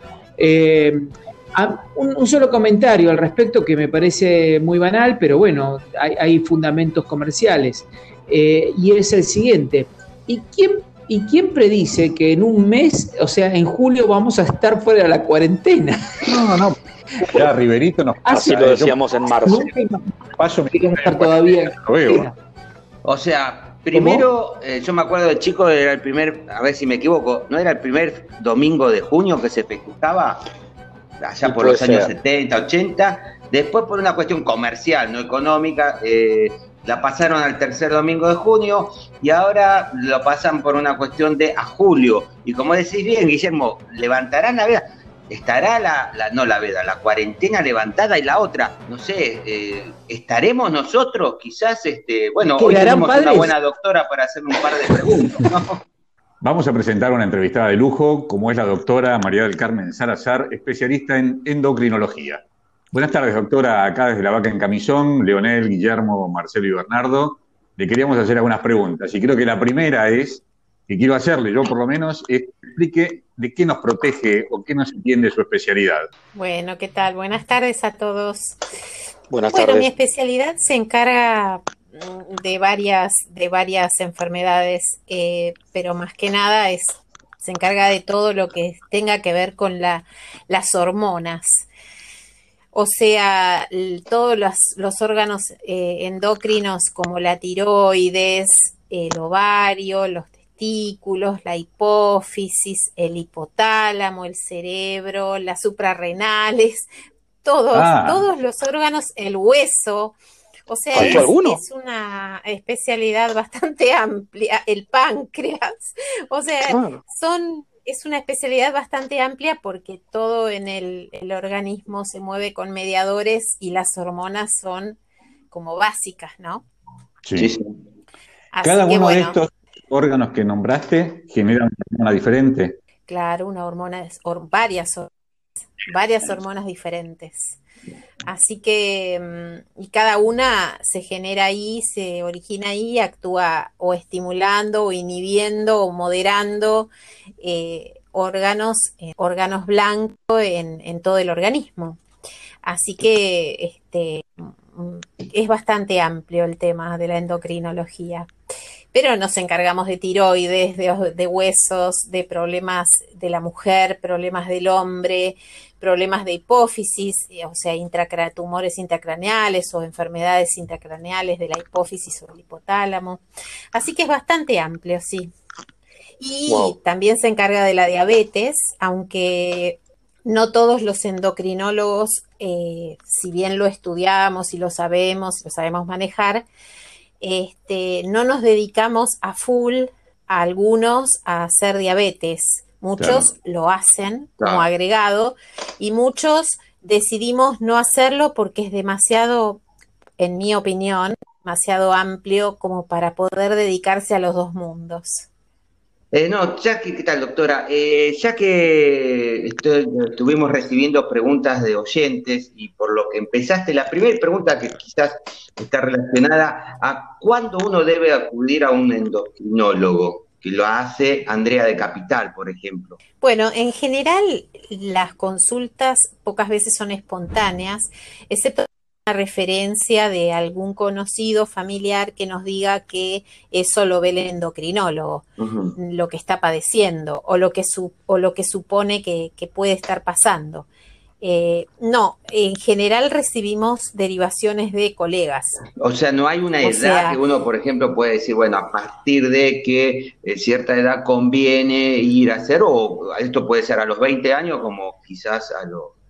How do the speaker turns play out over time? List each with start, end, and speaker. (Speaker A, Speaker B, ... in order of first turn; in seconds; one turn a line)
Speaker A: 0.4-16.2
Speaker B: 16.2-19.0
Speaker C: 18.3-19.6
Speaker A: 19.4-20.0
Speaker B: 20.3-22.3
Speaker A: 20.7-22.3
Speaker D: 23.0-30.4
Speaker A: 23.9-24.3
Speaker D: 31.2-55.8
Speaker C: 31.4-32.1
Speaker A: 52.5-53.5
Speaker B: 56.4-76.1
Speaker E: 76.3-78.6
Speaker C: 79.3-79.9
Speaker E: 79.5-91.7
Speaker E: 92.7-106.9
Speaker E: 107.4-110.2
Speaker B: 107.7-108.2
Speaker E: 110.7-125.0
Speaker C: 110.9-111.6
Speaker B: 110.9-111.3
Speaker C: 116.6-117.0
Speaker E: 125.5-126.6
Speaker B: 127.2-127.5
Speaker D: 127.3-127.7
Speaker E: 128.5-129.4
Speaker B: 128.6-132.8
Speaker E: 133.1-135.1
Speaker E: 135.8-137.6
Speaker E: 138.2-152.0
Speaker E: 152.6-158.3
Speaker E: 158.9-173.2
Speaker E: 173.7-175.3
Speaker E: 176.2-186.5
Speaker E: 187.2-199.6
Speaker B: 193.0-193.3
Speaker D: 194.4-194.7
Speaker E: 200.2-205.2
Speaker D: 206.1-223.0
Speaker E: 223.2-235.2
Speaker D: 235.4-235.7
Speaker E: 235.8-240.7
Speaker E: 241.2-245.6
Speaker D: 245.8-255.9
Speaker E: 246.6-247.2